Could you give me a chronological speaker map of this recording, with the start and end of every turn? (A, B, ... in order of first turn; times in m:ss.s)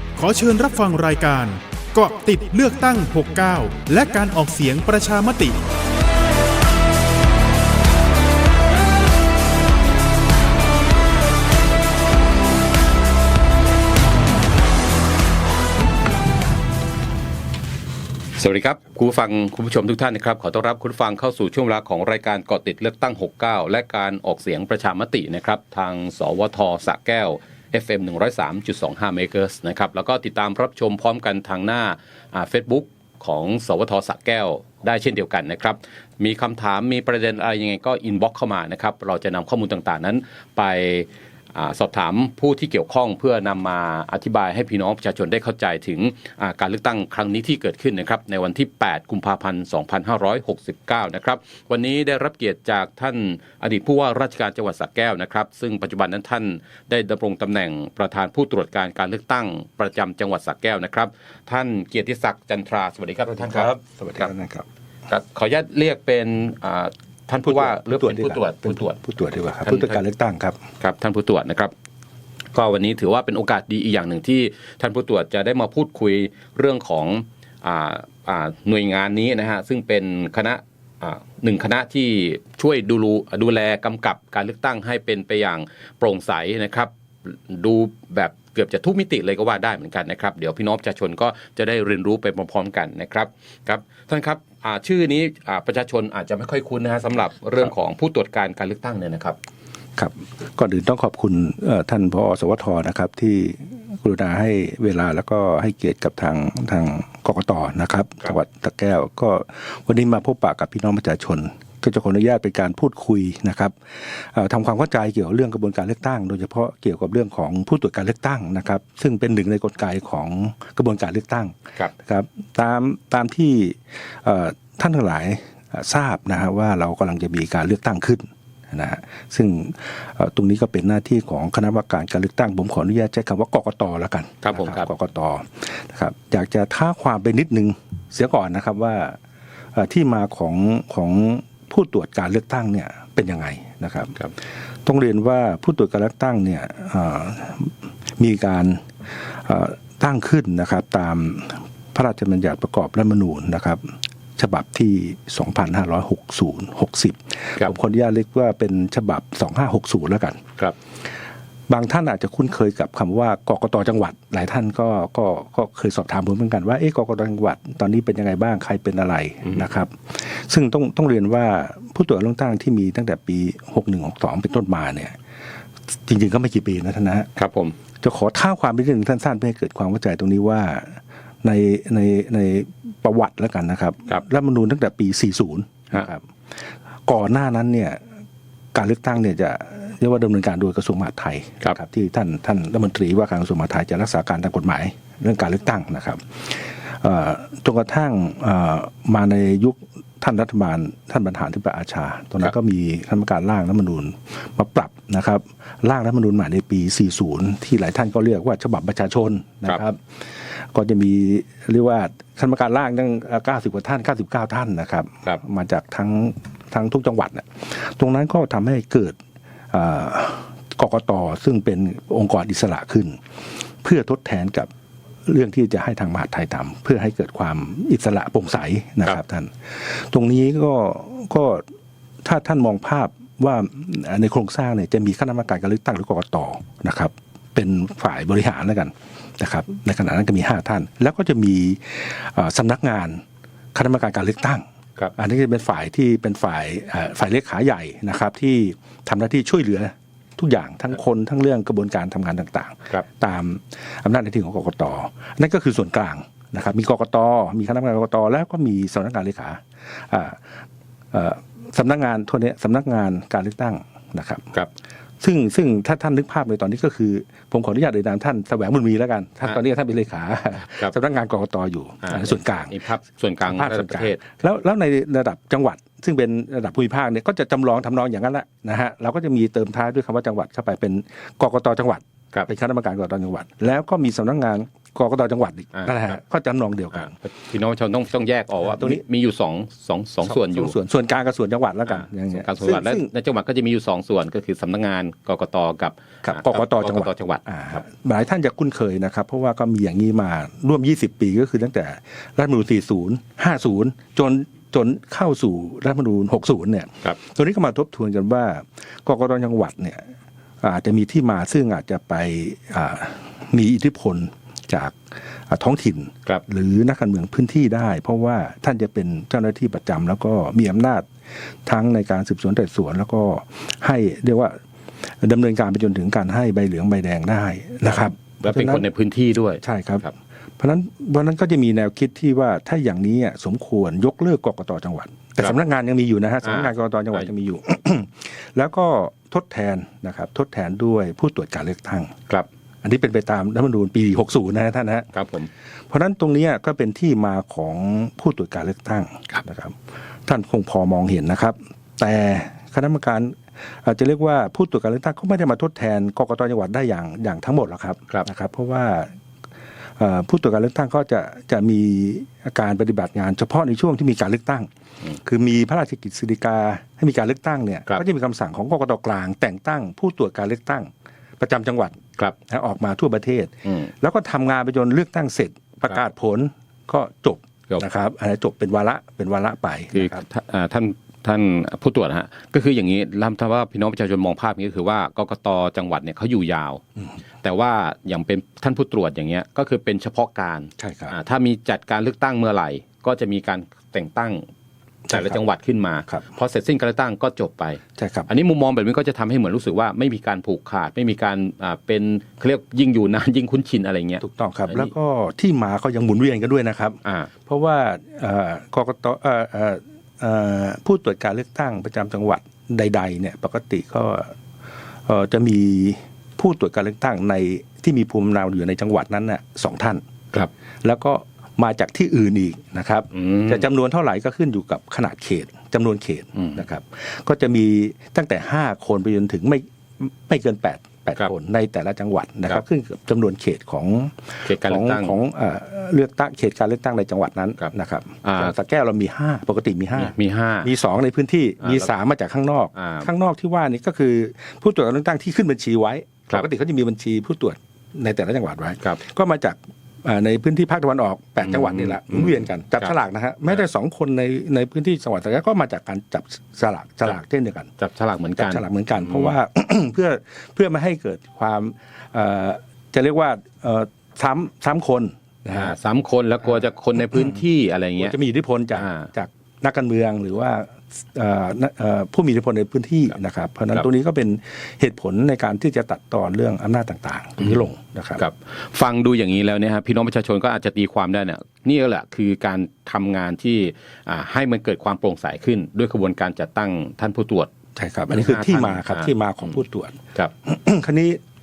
0:00.2-0:05.6 A
0:18.4-1:04.3 B
1:03.3-1:04.6 C
1:05.1-1:09.0 B
1:07.4-1:10.6 C
1:09.6-1:10.0 B
1:10.8-1:11.7 B
1:12.5-1:39.4 B
1:40.0-2:19.2 C
2:14.4-2:14.9 B
2:19.7-2:24.2 C
2:24.8-2:40.4 C
2:41.7-2:55.2 C
2:56.1-2:57.3 C
2:57.4-2:57.7 B
2:58.0-3:06.3 C
3:07.0-3:08.0 C
3:08.7-3:39.2 C
3:39.7-3:43.2 C
3:43.8-3:44.7 C
3:45.3-3:51.6 C
3:52.2-4:03.2 C
4:03.7-4:04.6 C
4:05.1-4:20.4 C
4:21.1-4:24.5 C
4:25.2-4:32.8 C
4:32.0-4:34.2 B
4:33.4-4:47.1 C
4:45.7-4:46.2 B
4:46.9-4:50.7 B
4:48.7-4:49.0 C
4:50.2-4:53.1 C
4:51.9-4:57.8 B
4:56.2-5:10.1 C
5:10.6-5:21.1 C
5:21.6-5:24.6 C
5:25.2-5:28.8 C
5:27.8-5:30.1 B
5:29.6-5:30.0 C
5:30.6-5:42.1 C
5:36.4-5:37.2 B
5:42.8-5:45.1 C
5:45.1-5:45.5 B
5:45.9-5:59.1 C
6:00.0-6:04.7 C
6:05.2-6:20.2 C
6:13.6-6:13.9 B
6:19.9-6:26.8 B
6:27.4-6:34.4 B
6:30.8-6:31.1 C
6:35.1-6:35.4 C
6:35.1-6:44.9 B
6:38.0-6:38.3 C
6:44.2-6:54.3 C
6:47.0-6:47.3 B
6:55.0-7:00.0 C
7:00.8-7:37.7 C
7:03.1-7:03.6 B
7:06.3-7:06.6 B
7:14.4-7:15.1 B
7:18.2-7:18.5 B
7:20.0-7:20.7 B
7:21.6-7:21.9 B
7:22.7-7:23.1 B
7:31.4-7:32.9 B
7:37.8-7:39.3 B
7:38.4-7:45.8 C
7:45.5-7:48.1 B
7:48.0-7:58.2 C
7:48.8-7:49.1 B
7:58.2-8:07.5 B
8:07.8-8:11.2 C
8:08.1-8:09.6 B